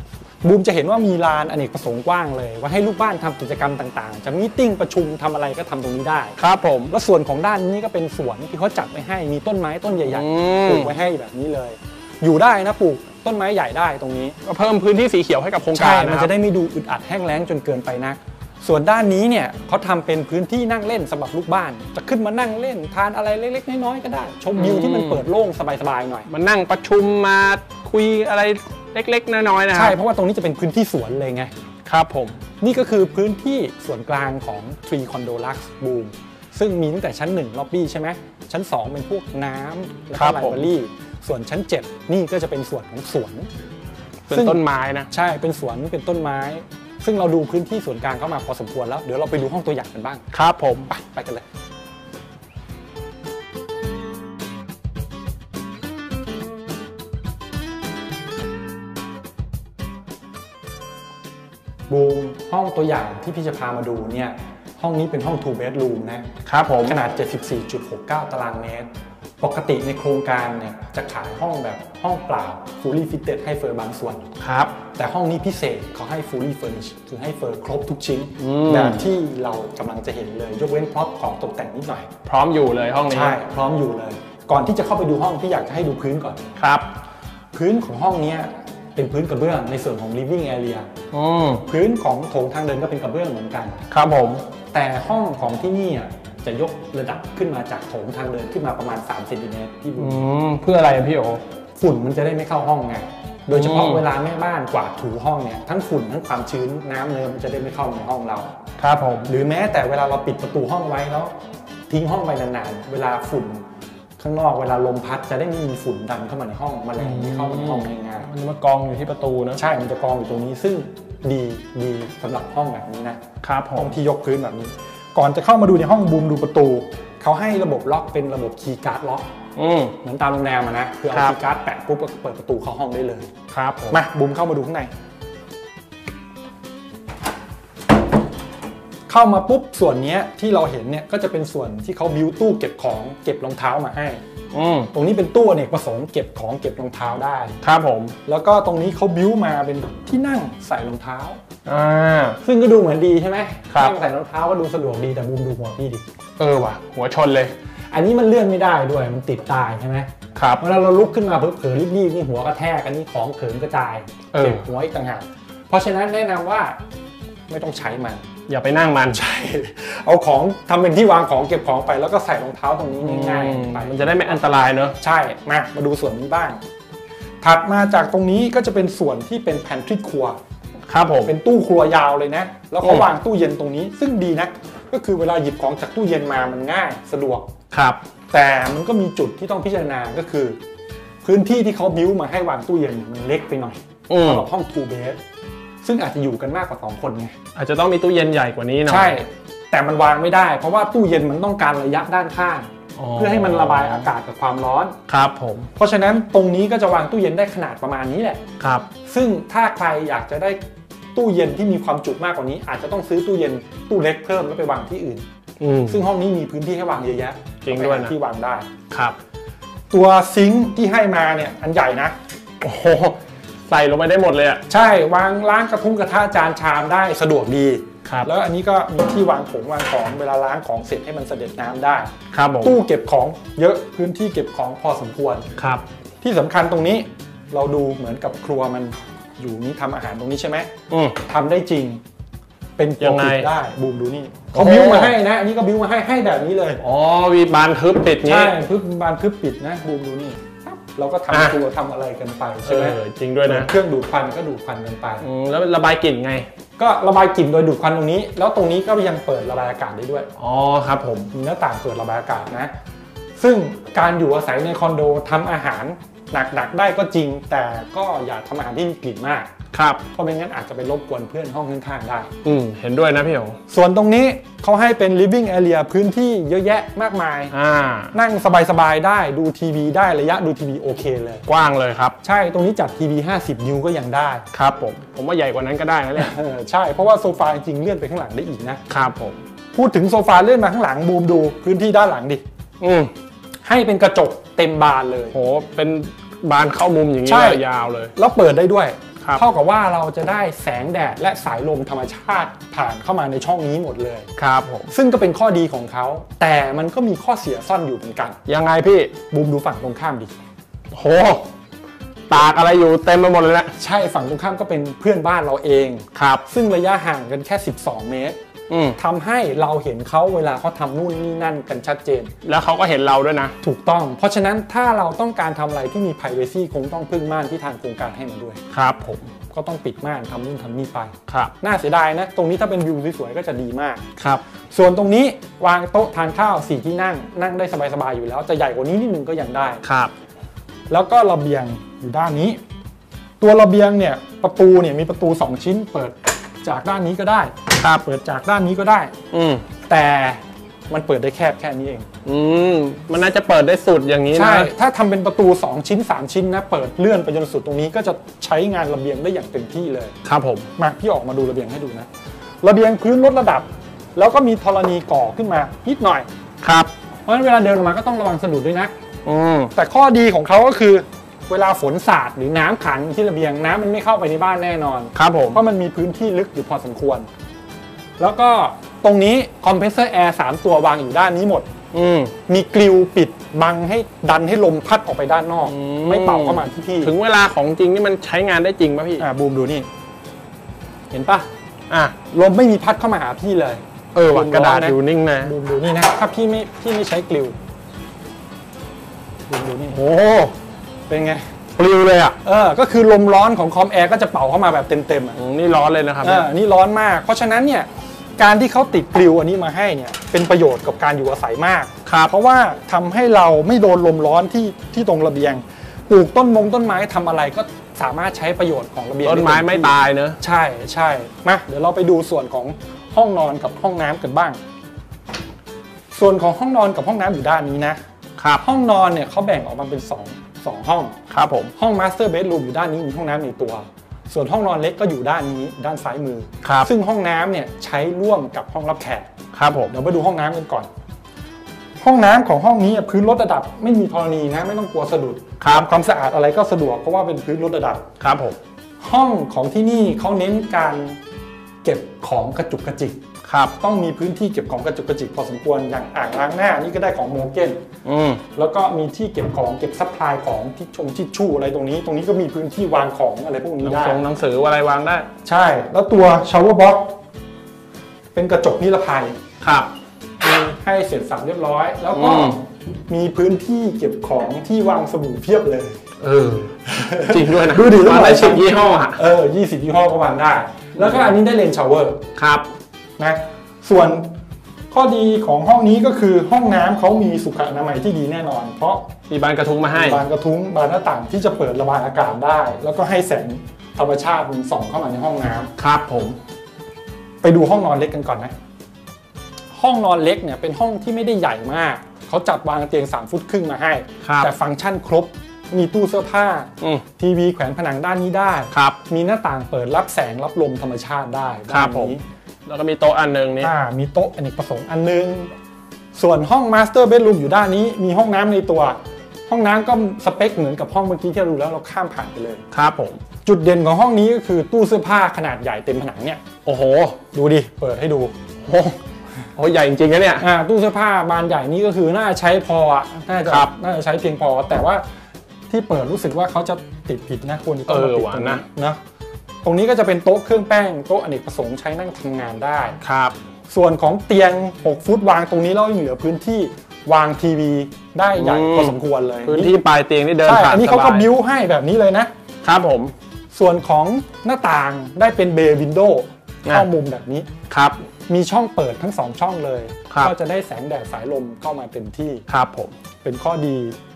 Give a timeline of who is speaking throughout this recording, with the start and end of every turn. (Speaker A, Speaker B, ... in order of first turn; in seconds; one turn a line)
Speaker A: 0.4-6.4
Speaker B: 6.4-6.9
Speaker A: 6.9-14.4
Speaker B: 10.1-10.9
Speaker B: 14.4-16.3
Speaker A: 15.7-26.3
Speaker B: 24.6-25.2
Speaker B: 26.3-30.0
Speaker A: 29.7-31.5
Speaker B: 31.9-32.4
Speaker A: 32.6-43.5
Speaker B: 40.1-40.7
Speaker B: 44.3-45.1
Speaker A: 44.3-50.2
Speaker B: 50.3-50.9
Speaker A: 50.9-51.5
Speaker A: 61.9-66.3
Speaker B: 66.5-67.0
Speaker A: 66.8-68.9
Speaker A: 69.4-74.3
Speaker B: 74.4-74.8
Speaker A: 74.9-82.1
Speaker B: 78.4-79.1
Speaker B: 82.2-83.4
Speaker A: 83.1-86.4
Speaker B: 86.6-86.9
Speaker A: 87.5-90.9
Speaker B: 91.1-91.7
Speaker A: 91.7-93.8
Speaker B: 93.9-94.5
Speaker A: 94.7-100.2
Speaker B: 100.0-101.4
Speaker A: 101.8-108.5
Speaker B: 103.5-104.0
Speaker B: 108.8-109.3
Speaker A: 109.3-111.3
Speaker A: 111.9-113.7
Speaker A: 114.2-118.3
Speaker B: 117.0-119.6
Speaker A: 119.5-123.2
Speaker B: 123.4-124.0
Speaker A: 123.8-129.3
Speaker B: 129.6-130.0
Speaker A: 130.0-133.3
Speaker B: 131.1-131.4
Speaker B: 133.5-134.0
Speaker A: 133.9-134.9
Speaker A: 139.1-144.2
Speaker B: 144.5-144.9
Speaker A: 144.9-147.6
Speaker B: 147.6-148.2
Speaker A: 148.2-151.4
Speaker B: 151.7-152.4
Speaker A: 152.4-156.0
Speaker B: 156.4-157.5
Speaker A: 157.9-166.8
Speaker B: 160.3-160.6
Speaker B: 164.3-164.7
Speaker A: 167.5-168.3
Speaker B: 168.5-169.2
Speaker A: 169.1-174.1
Speaker B: 173.0-175.0
Speaker A: 175.0-176.6
Speaker A: 177.4-180.4
Speaker B: 180.9-181.3
Speaker A: 181.2-187.5
Speaker B: 182.8-183.1
Speaker B: 187.7-188.0
Speaker A: 188.3-190.6
Speaker A: 191.2-195.2
Speaker B: 194.1-194.5
Speaker A: 195.8-197.3
Speaker B: 197.6-199.2
Speaker A: 198.9-205.0
Speaker B: 203.0-204.1
Speaker B: 205.1-205.7
Speaker A: 205.8-208.4
Speaker B: 208.6-208.9
Speaker A: 209.1-210.6
Speaker A: 211.1-215.3
Speaker B: 215.6-216.1
Speaker A: 215.9-218.7
Speaker B: 217.6-218.1
Speaker B: 218.9-219.2
Speaker A: 219.9-222.2
Speaker B: 222.6-224.6
Speaker A: 224.7-232.1
Speaker B: 232.3-232.8
Speaker A: 232.6-235.5
Speaker B: 235.6-235.8
Speaker A: 236.2-240.7
Speaker B: 240.9-241.2
Speaker A: 241.2-242.0
Speaker A: 242.8-246.8
Speaker B: 243.0-243.5
Speaker B: 244.5-245.2
Speaker B: 246.8-248.5
Speaker A: 248.2-255.3
Speaker B: 251.3-251.6
Speaker B: 252.7-253.7
Speaker B: 255.2-256.5
Speaker A: 256.8-260.3
Speaker B: 260.4-261.3
Speaker A: 261.3-262.7
Speaker A: 263.4-269.5
Speaker B: 269.7-270.0
Speaker A: 270.1-272.3
Speaker B: 272.4-273.6
Speaker A: 273.7-277.5
Speaker B: 277.5-278.1
Speaker A: 278.1-281.4
Speaker B: 281.5-282.2
Speaker A: 282.2-284.4
Speaker B: 284.5-286.3
Speaker A: 286.1-288.8
Speaker B: 288.9-289.4
Speaker A: 289.7-292.4
Speaker B: 292.8-293.1
Speaker A: 293.6-295.4
Speaker B: 295.3-298.1
Speaker A: 297.3-297.6
Speaker A: 298.1-304.3
Speaker B: 304.4-304.9
Speaker A: 304.9-308.4
Speaker B: 308.5-309.1
Speaker A: 309.3-310.3
Speaker B: 310.9-311.5
Speaker B: 312.3-313.7
Speaker A: 313.8-318.4
Speaker B: 316.1-316.4
Speaker B: 318.7-319.0
Speaker A: 319.0-322.3
Speaker B: 322.4-323.6
Speaker A: 323.6-328.6
Speaker B: 328.7-329.3
Speaker A: 329.5-334.0
Speaker B: 331.3-331.6
Speaker B: 334.2-334.4
Speaker A: 334.7-339.8
Speaker B: 339.8-340.1
Speaker A: 340.9-342.6
Speaker A: 343.4-349.1
Speaker B: 349.3-349.6
Speaker A: 349.9-352.1
Speaker B: 352.2-354.7
Speaker A: 354.3-360.1
Speaker B: 360.2-360.7
Speaker A: 360.8-362.1
Speaker A: 362.6-366.3
Speaker B: 366.6-366.9
Speaker A: 367.3-368.9
Speaker B: 369.2-369.7
Speaker A: 369.8-377.3
Speaker B: 375.1-375.6
Speaker A: 378.2-381.7
Speaker B: 381.9-382.4
Speaker A: 382.5-387.1
Speaker B: 385.6-389.3
Speaker A: 389.2-389.9
Speaker A: 391.1-391.5
Speaker B: 391.9-392.2
Speaker A: 392.3-397.6
Speaker B: 394.1-395.5
Speaker A: 399.5-400.0
Speaker B: 399.9-400.5
Speaker A: 401.1-401.5
Speaker B: 401.8-402.4
Speaker A: 402.4-405.4
Speaker B: 405.4-406.5
Speaker A: 406.2-424.6
Speaker B: 412.1-412.3
Speaker B: 419.2-420.4
Speaker A: 426.1-428.0
Speaker B: 428.4-428.6
Speaker A: 428.6-431.2
Speaker B: 431.3-431.7
Speaker A: 431.8-439.3
Speaker B: 436.6-436.9
Speaker B: 439.5-439.9
Speaker A: 439.9-440.9
Speaker A: 442.0-448.1
Speaker B: 445.6-445.9
Speaker B: 448.2-448.6
Speaker A: 449.0-451.2
Speaker A: 451.8-453.2
Speaker B: 453.4-453.8
Speaker A: 453.8-457.8
Speaker B: 458.1-458.4
Speaker A: 458.6-464.2
Speaker B: 463.8-465.3
Speaker A: 465.4-467.1
Speaker A: 468.3-469.4
Speaker B: 469.6-469.9
Speaker A: 470.4-476.0
Speaker B: 472.1-472.6
Speaker B: 476.2-479.2
Speaker A: 476.9-482.2
Speaker B: 481.0-481.4
Speaker B: 482.4-482.7
Speaker A: 483.2-484.3
Speaker A: 484.9-489.1
Speaker B: 489.3-490.2
Speaker A: 489.9-495.7
Speaker B: 495.8-496.4
Speaker A: 497.4-498.5
Speaker A: 499.7-512.2
Speaker B: 504.2-504.5
Speaker B: 508.7-509.0
Speaker B: 511.7-513.7
Speaker A: 513.6-515.5
Speaker A: 516.1-522.6
Speaker B: 522.7-523.2
Speaker A: 523.4-526.4
Speaker B: 526.6-527.2
Speaker A: 527.3-528.4
Speaker B: 528.7-529.0
Speaker B: 529.6-530.5
Speaker A: 530.4-535.0
Speaker B: 533.5-533.7
Speaker A: 535.7-539.0
Speaker B: 537.9-538.6
Speaker A: 539.6-543.0
Speaker B: 543.0-543.4
Speaker A: 543.7-549.8
Speaker B: 548.3-551.3
Speaker A: 550.4-552.3
Speaker B: 552.6-553.1
Speaker A: 553.5-557.5
Speaker B: 557.7-558.0
Speaker A: 558.3-562.5
Speaker B: 562.5-563.0
Speaker A: 563.2-564.0